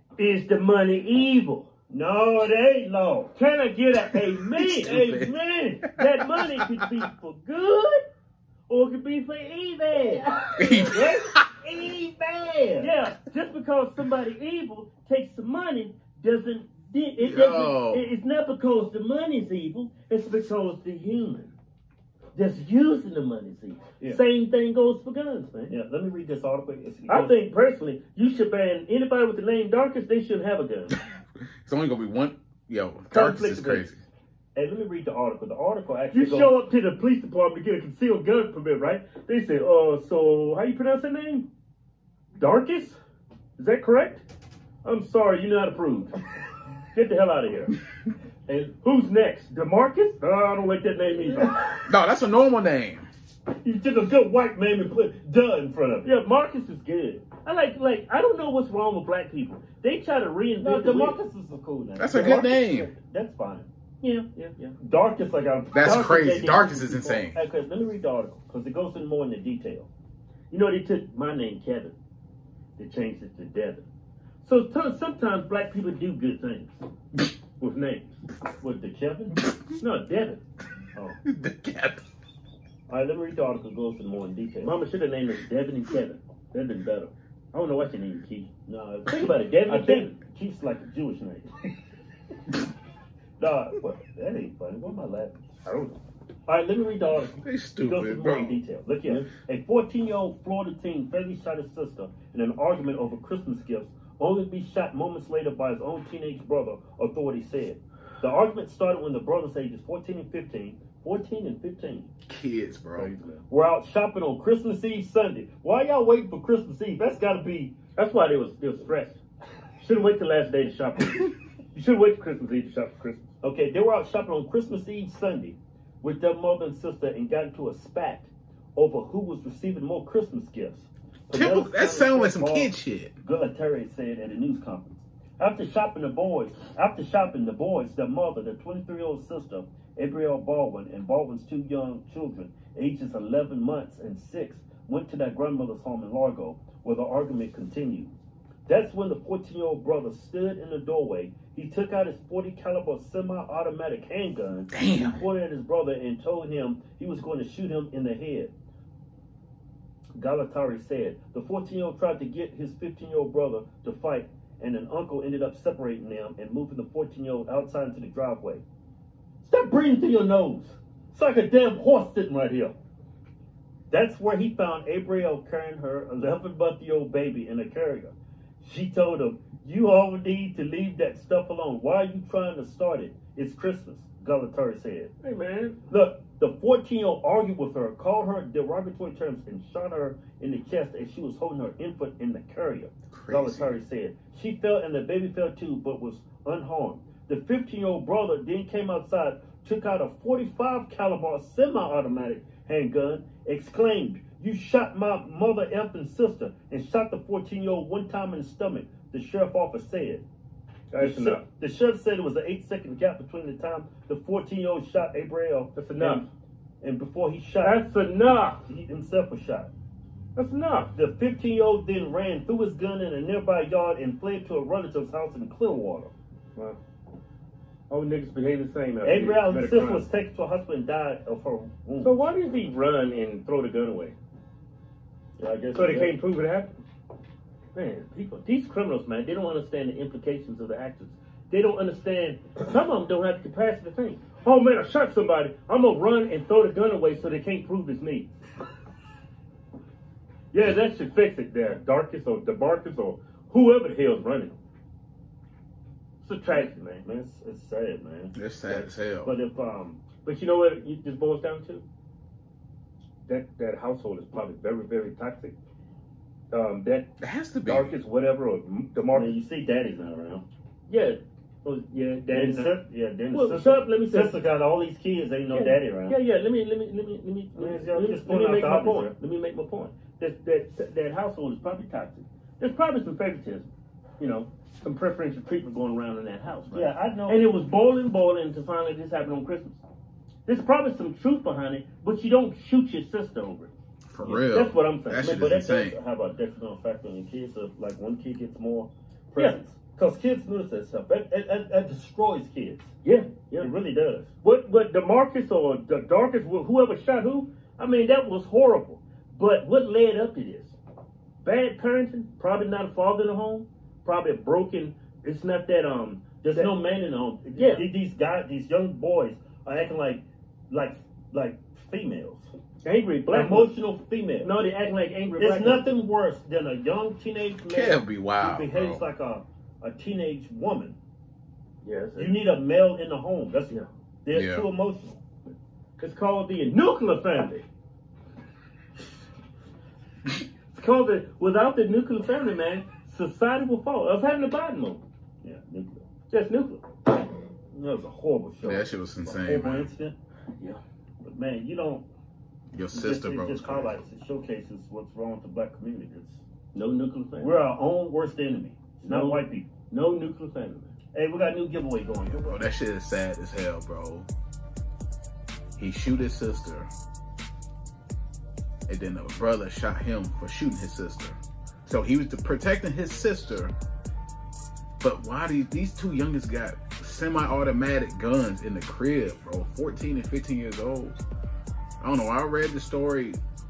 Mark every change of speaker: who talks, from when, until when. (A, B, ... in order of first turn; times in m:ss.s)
0:00.2-0:01.7 A
0:01.9-0:03.3 B
0:03.3-0:08.0 A
0:04.5-0:05.9 C
0:05.0-0:05.7 B
0:08.7-0:11.2 A
0:10.4-0:12.9 B
0:10.6-0:11.4 C
0:12.8-0:21.5 A
0:17.2-0:18.0 C
0:22.3-0:25.7 A
0:25.7-0:27.4 B
0:27.1-0:30.9 A
0:31.6-0:34.0 C
0:33.1-0:34.0 A
0:34.5-0:36.6 B
0:36.1-0:41.5 A
0:42.4-0:43.0 A
0:43.6-0:44.2 A
0:44.8-0:46.2 A
0:46.9-0:47.7 A
0:48.7-0:51.6 A
0:51.8-0:53.1 C
0:53.6-0:56.1 B
0:56.0-1:01.2 A
1:00.6-1:03.7 B
1:02.0-1:02.9 C
1:04.0-1:04.8 A
1:04.8-1:09.9 B
1:05.7-1:07.4 C
1:10.5-1:12.0 A
1:12.8-1:13.8 A
1:14.4-1:16.8 A
1:17.6-1:18.2 A
1:18.6-1:19.4 B
1:19.8-1:20.4 A
1:20.9-1:21.2 B
1:21.2-1:22.0 C
1:22.9-1:24.7 B
1:24.6-1:28.5 A
1:28.6-1:31.7 B
1:29.1-1:30.2 A
1:33.4-1:35.4 B
1:35.6-1:36.0 A
1:36.5-1:52.1 B
1:37.4-1:38.6 C
1:52.3-1:53.1 C
1:53.0-1:53.4 A
1:53.5-1:57.8 B
1:57.9-1:59.2 A
1:59.8-2:03.3 A
2:03.4-2:28.1 B
2:11.3-2:13.1 C
2:28.7-2:38.5 B
2:34.7-2:35.2 C
2:40.2-2:48.6 B
2:49.4-2:52.8 B
2:53.9-3:05.1 B
3:05.2-3:05.8 A
3:05.9-3:30.2 B
3:13.1-3:13.8 C
3:30.9-3:31.4 A
3:31.0-3:36.2 B
3:35.7-3:36.3 A
3:36.8-3:39.7 B
3:37.6-3:38.6 A
3:40.4-3:40.9 A
3:40.9-3:46.1 B
3:47.9-3:50.0 A
3:49.0-3:52.2 B
3:52.0-3:54.2 A
3:55.4-3:56.1 B
3:55.7-3:56.7 A
3:57.7-4:08.3 A
4:10.5-4:14.6 A
4:16.2-4:17.0 A
4:16.5-4:20.0 B
4:18.3-4:19.3 C
4:19.7-4:21.8 A
4:23.3-4:25.5 A
4:26.5-4:27.1 A
4:27.2-4:28.0 C
4:27.6-4:29.4 A
4:29.1-4:30.4 B
4:30.9-4:32.7 A
4:32.3-4:36.2 B
4:33.3-4:34.4 A
4:35.5-4:49.8 A
4:37.5-4:39.1 B
4:46.7-4:47.4 B
4:50.4-4:53.7 A
4:54.1-4:56.0 C
4:54.2-4:55.3 A
4:55.1-5:02.9 B
5:03.0-5:03.7 A
5:03.6-5:04.3 B
5:04.4-5:10.8 A
5:11.4-5:16.7 A
5:16.4-5:22.5 B
5:17.5-5:17.9 A
5:22.8-5:23.7 A
5:23.3-5:24.6 B
5:24.4-5:25.9 A
5:25.4-5:31.0 B
5:27.6-5:29.0 C
5:31.8-5:32.4 A
5:32.2-5:35.2 B
5:34.3-5:34.7 C
5:36.0-5:37.6 A
5:40.7-5:45.0 A
5:45.4-5:46.1 B
5:46.3-5:46.8 A
5:47.7-5:50.2 B
5:48.6-5:49.9 C
5:51.2-5:52.1 B
5:52.7-5:54.0 C
5:52.9-5:56.4 B
5:56.7-5:57.6 A
5:57.4-5:59.7 B
5:59.0-6:00.9 A
6:01.1-6:02.6 B
6:02.3-6:04.3 C
6:05.8-6:06.9 C
6:08.9-6:13.7 C
6:15.0-6:21.2 C
6:22.0-6:23.4 C